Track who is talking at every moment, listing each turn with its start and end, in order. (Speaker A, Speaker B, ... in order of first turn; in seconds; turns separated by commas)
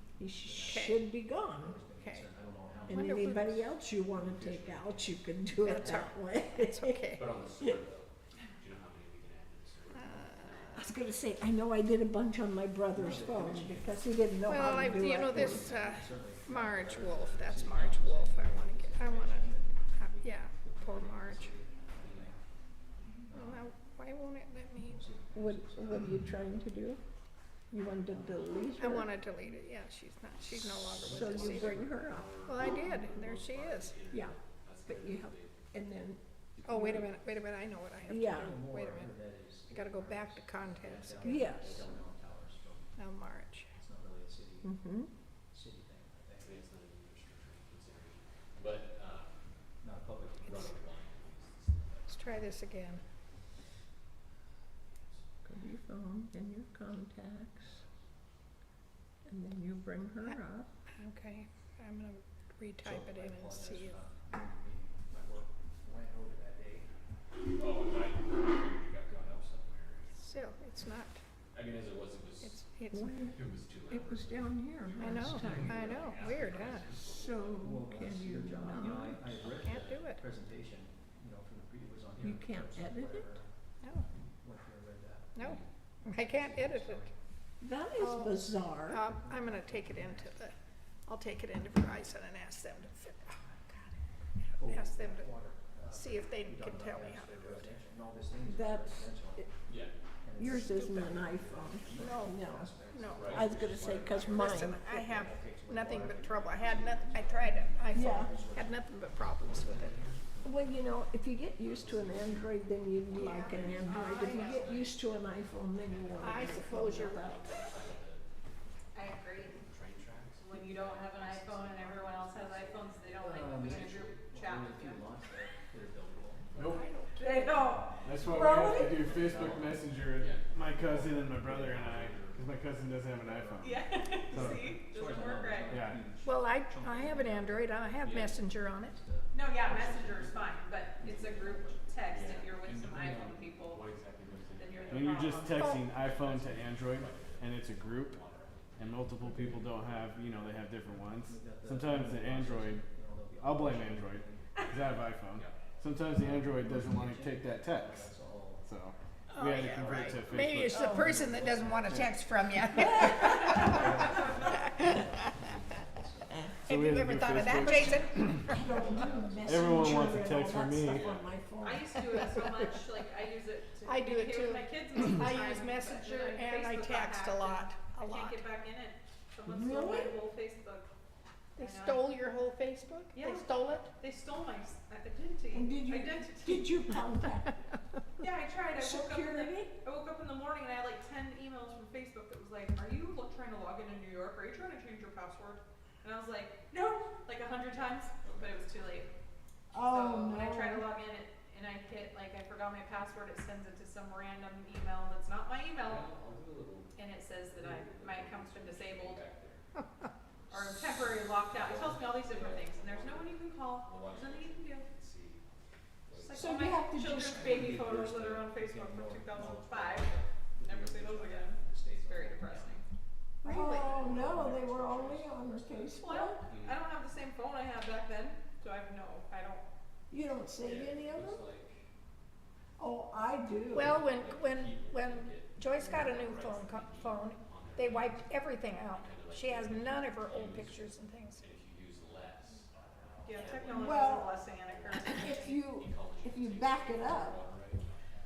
Speaker A: 0.2-1.8, Speaker B: 0.4-1.0, Speaker C: 0.7-1.0, Speaker B: 1.6-6.1, Speaker C: 2.0-2.3, Speaker A: 2.9-7.8, Speaker C: 2.9-3.6, Speaker C: 5.6-7.3, Speaker D: 7.1-10.8, Speaker C: 9.9-10.8, Speaker A: 10.8-15.7, Speaker B: 12.9-22.4, Speaker C: 14.4-21.6, Speaker D: 22.0-22.3, Speaker B: 23.3-23.7, Speaker C: 23.3-25.1, Speaker B: 24.9-26.1, Speaker A: 25.3-27.0, Speaker A: 27.7-29.1, Speaker C: 28.8-31.9, Speaker D: 30.5-35.7, Speaker A: 31.0-32.3, Speaker C: 32.4-34.0, Speaker A: 34.1-36.2, Speaker D: 36.6-37.4, Speaker C: 36.6-39.2, Speaker A: 36.7-37.1, Speaker A: 38.1-38.6, Speaker B: 38.3-43.0, Speaker C: 39.7-41.5, Speaker A: 41.2-41.9, Speaker C: 43.0-43.7, Speaker B: 43.8-44.8, Speaker A: 44.6-45.1, Speaker B: 45.5-46.6, Speaker D: 46.4-49.5, Speaker B: 49.8-50.7, Speaker D: 50.4-52.7, Speaker C: 52.1-53.0, Speaker D: 54.9-55.2, Speaker A: 55.5-57.8, Speaker A: 59.3-60.7, Speaker C: 61.0-64.0, Speaker B: 62.8-66.9, Speaker D: 67.5-70.2, Speaker C: 70.2-71.2, Speaker D: 71.5-72.7, Speaker C: 72.4-73.2, Speaker A: 72.9-73.4, Speaker D: 73.3-77.8, Speaker A: 73.9-76.0, Speaker C: 75.0-76.9, Speaker A: 77.1-79.3, Speaker B: 77.6-87.1, Speaker C: 79.6-80.2, Speaker A: 82.2-83.4, Speaker C: 85.3-87.1, Speaker D: 85.4-85.7, Speaker A: 87.6-89.0, Speaker C: 88.0-90.5, Speaker B: 89.0-90.4, Speaker C: 91.1-95.3, Speaker B: 94.6-99.5, Speaker C: 95.9-97.7, Speaker A: 98.5-99.5, Speaker D: 99.7-99.9, Speaker B: 100.2-108.8, Speaker A: 100.4-102.7, Speaker C: 102.0-103.5, Speaker D: 103.1-104.3, Speaker A: 103.2-104.9, Speaker C: 104.2-110.0, Speaker A: 107.9-108.3, Speaker D: 109.4-110.4, Speaker B: 109.5-110.5, Speaker A: 110.4-117.5, Speaker D: 111.6-112.5, Speaker D: 113.1-118.3, Speaker C: 113.1-114.7, Speaker C: 116.2-117.8, Speaker E: 119.0-119.6, Speaker D: 119.4-124.2, Speaker E: 120.4-125.1, Speaker B: 123.2-129.9, Speaker C: 126.7-127.5, Speaker E: 127.2-127.9, Speaker F: 128.0-134.7, Speaker A: 128.3-129.0, Speaker D: 130.2-131.2, Speaker B: 130.8-138.3, Speaker E: 133.6-135.8, Speaker F: 135.7-136.0, Speaker C: 136.2-139.0, Speaker D: 138.0-138.4, Speaker B: 138.9-141.9, Speaker E: 139.3-143.8, Speaker D: 142.1-149.8, Speaker E: 144.6-145.7, Speaker F: 144.9-148.2, Speaker F: 148.8-152.8, Speaker B: 149.2-149.6, Speaker B: 151.2-154.6, Speaker F: 153.4-161.2, Speaker D: 155.4-155.8, Speaker B: 156.2-158.7, Speaker D: 159.3-160.5, Speaker C: 159.3-165.1, Speaker B: 160.8-162.2, Speaker B: 162.8-166.6, Speaker E: 163.1-164.5, Speaker C: 166.6-168.4, Speaker F: 166.7-168.5, Speaker B: 168.4-170.4, Speaker A: 168.5-171.9, Speaker F: 169.4-171.1, Speaker E: 171.6-180.9, Speaker C: 173.9-178.4, Speaker A: 179.4-180.2, Speaker E: 181.6-182.2, Speaker C: 181.6-183.9, Speaker E: 183.1-186.8, Speaker A: 185.5-187.7, Speaker E: 188.2-199.1, Speaker A: 188.8-189.7, Speaker D: 198.2-198.5, Speaker A: 199.7-200.9, Speaker E: 199.8-206.1, Speaker D: 205.8-209.7, Speaker E: 207.0-209.2, Speaker C: 209.8-210.1, Speaker E: 210.5-214.9, Speaker D: 210.6-215.5, Speaker D: 216.1-216.8, Speaker E: 216.2-222.8, Speaker A: 216.3-217.8, Speaker B: 217.3-222.8, Speaker A: 223.4-226.4, Speaker C: 223.4-223.8, Speaker E: 223.4-223.8, Speaker B: 223.6-225.9, Speaker D: 224.1-224.5, Speaker E: 226.0-229.7, Speaker D: 226.5-226.8, Speaker A: 230.1-231.4, Speaker D: 230.6-231.8, Speaker A: 232.8-234.0, Speaker C: 233.7-241.4, Speaker D: 233.8-248.2, Speaker E: 243.2-245.6, Speaker A: 243.7-244.3, Speaker A: 244.9-247.4